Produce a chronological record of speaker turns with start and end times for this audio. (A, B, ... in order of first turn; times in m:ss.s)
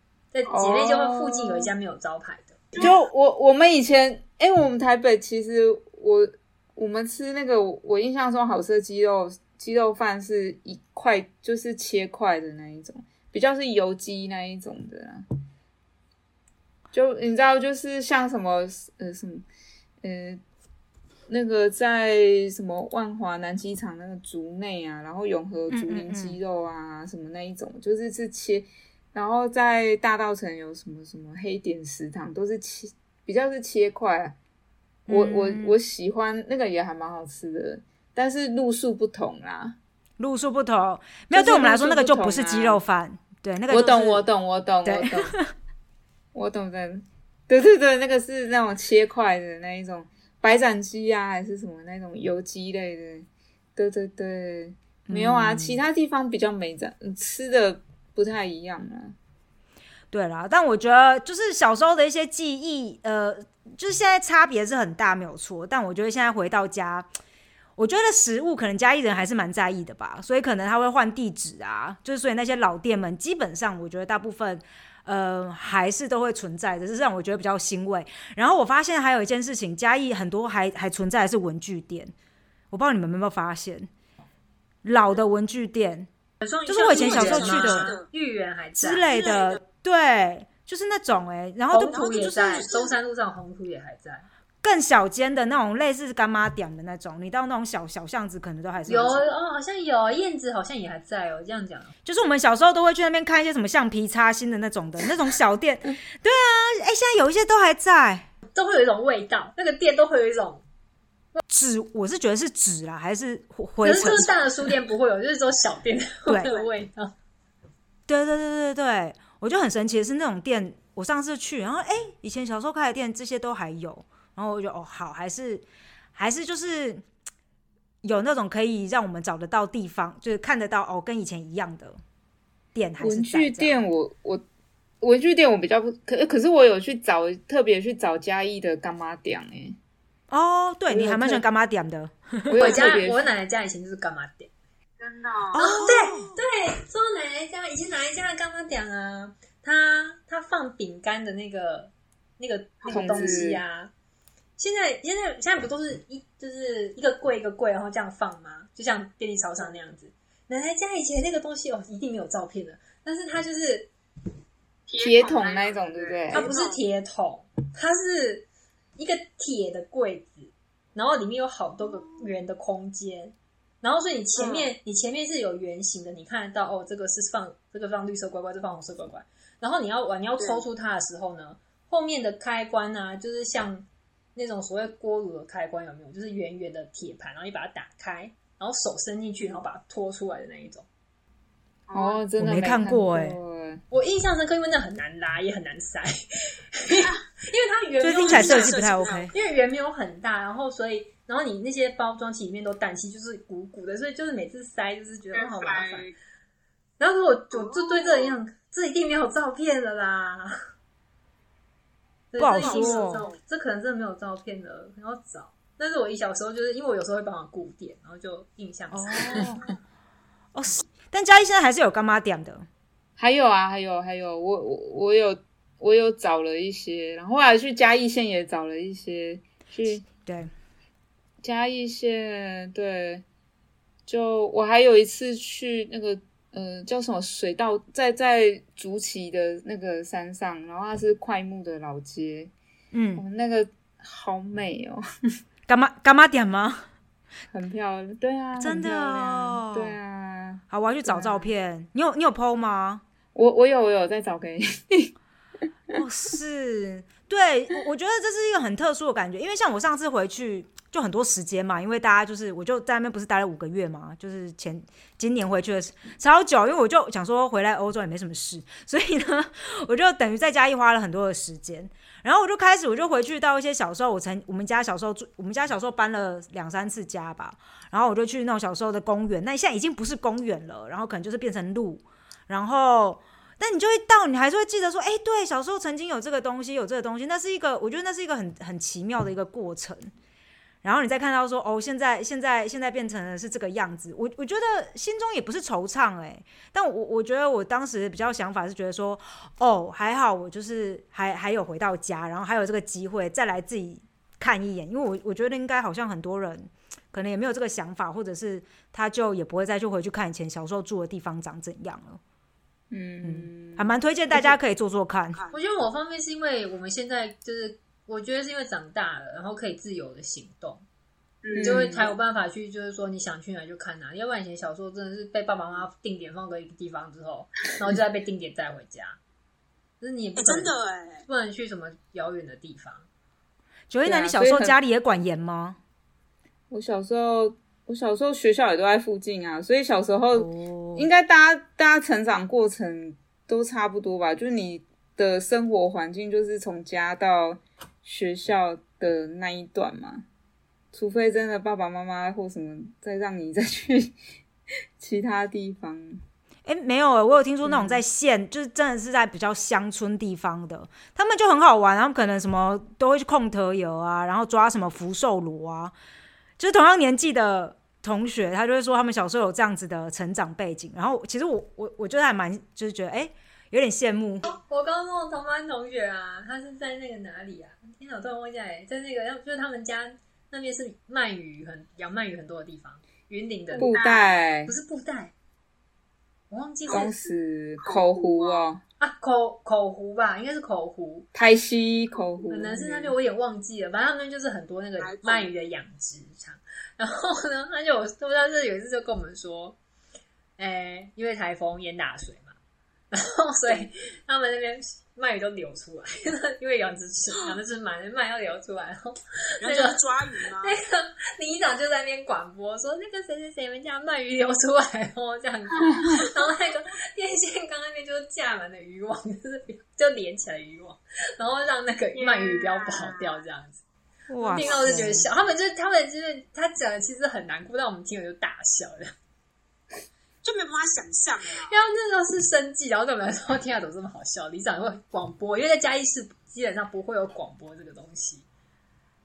0:00.3-0:02.7 A
0:00.5-0:01.7 B
0:02.8-0:15.2 B
0:16.9-0:19.4 B
0:20.0-0:20.4 B
0:21.3-0:34.4 B
0:25.7-0:26.4 C
0:35.1-0:35.8 C
0:35.1-0:39.8 B
0:40.2-0:44.2 C
0:41.3-0:42.8 B
0:43.7-0:45.4 B
0:44.8-0:45.5 C
0:46.3-0:59.2 B
0:55.1-0:55.8 C
1:00.1-1:07.1 C
1:07.8-1:22.1 C
1:22.7-1:23.9 C
1:24.8-1:26.1 C
1:26.4-1:29.1 A
1:26.7-1:27.9 C
1:26.8-1:28.1 D
1:28.8-1:32.6 C
1:29.1-1:29.6 D
1:31.7-1:34.3 A
1:31.9-1:32.9 D
1:34.6-1:39.3 C
1:38.9-1:41.9 A
1:42.0-1:48.3 C
1:48.5-1:50.6 A
1:51.5-1:54.7 C
1:53.8-1:57.2 A
1:58.1-2:07.0 C
2:08.0-2:12.0 C
2:12.8-2:13.8 C
2:13.0-2:14.4 B
2:15.0-2:19.8 B
2:20.3-2:22.8 C
2:20.9-2:21.4 B
2:22.5-2:23.3 B
2:22.6-2:24.5 A
2:25.0-2:26.4 D
2:25.5-2:26.3 C
2:25.6-2:33.9 A
2:32.8-2:33.4 D
2:32.9-2:33.6 B
2:34.6-2:43.9 A
2:44.9-2:46.8 D
2:45.0-2:46.5 B
2:46.3-2:48.5 A
2:49.0-3:10.9 A
2:54.4-2:54.7 D
3:11.9-3:12.2 D
3:11.9-3:13.8 B
3:12.4-3:13.4 C
3:13.9-3:18.8 A
3:18.0-3:19.3 C
3:18.1-3:19.4 D
3:19.3-3:26.1 A
3:25.3-3:26.1 D
3:27.0-3:30.6 A
3:27.5-3:28.4 D
3:32.3-3:39.5 A
3:32.4-3:33.3 C
3:32.5-3:33.4 D
3:38.9-3:39.7 C
3:40.5-3:42.7 C
3:43.2-3:50.0 B
3:50.2-3:50.5 C
3:51.4-3:53.2 B
3:54.1-4:02.5 B
4:02.9-4:03.2 C
4:03.2-4:05.0 B
4:05.7-4:06.8 C
4:07.5-4:11.5 B
4:08.6-4:10.0 C
4:10.7-4:13.0 C
4:13.4-4:15.1 B
4:15.9-4:50.1 C
4:50.8-5:12.2 C
5:12.9-5:14.6 B
5:13.2-5:15.4 C
5:15.5-5:20.8 A
5:21.4-5:22.1 D
5:21.5-5:22.1 B
5:21.6-5:29.2 A
5:30.0-5:30.7 A
5:30.4-5:31.3 D
5:31.3-5:33.1 A
5:33.9-5:35.8 C
5:34.0-5:34.8 B
5:36.7-5:50.2 B
5:40.4-5:41.1 C
5:50.9-5:54.2 B
5:55.0-5:56.2 B
5:56.7-6:05.9 C
5:57.6-5:58.0 B
6:06.6-6:14.4 C
6:14.4-6:23.9 A
6:23.7-6:24.4 D
6:23.8-6:24.7 B
6:24.7-6:25.3 A
6:26.5-6:27.1 A
6:26.9-6:28.8 B
6:27.8-6:28.6 D
6:29.0-6:31.3 A
6:31.3-6:33.2 B
6:32.5-6:39.8 A
6:35.0-6:35.5 D
6:40.6-6:42.6 A
6:43.1-6:50.0 A
6:49.6-6:50.8 D
6:50.6-7:03.8 A
7:02.1-7:03.4 D
7:04.3-7:05.2 C
7:04.4-7:09.1 A
7:04.5-7:05.1 D
7:10.4-7:11.7 D
7:11.7-7:18.4 A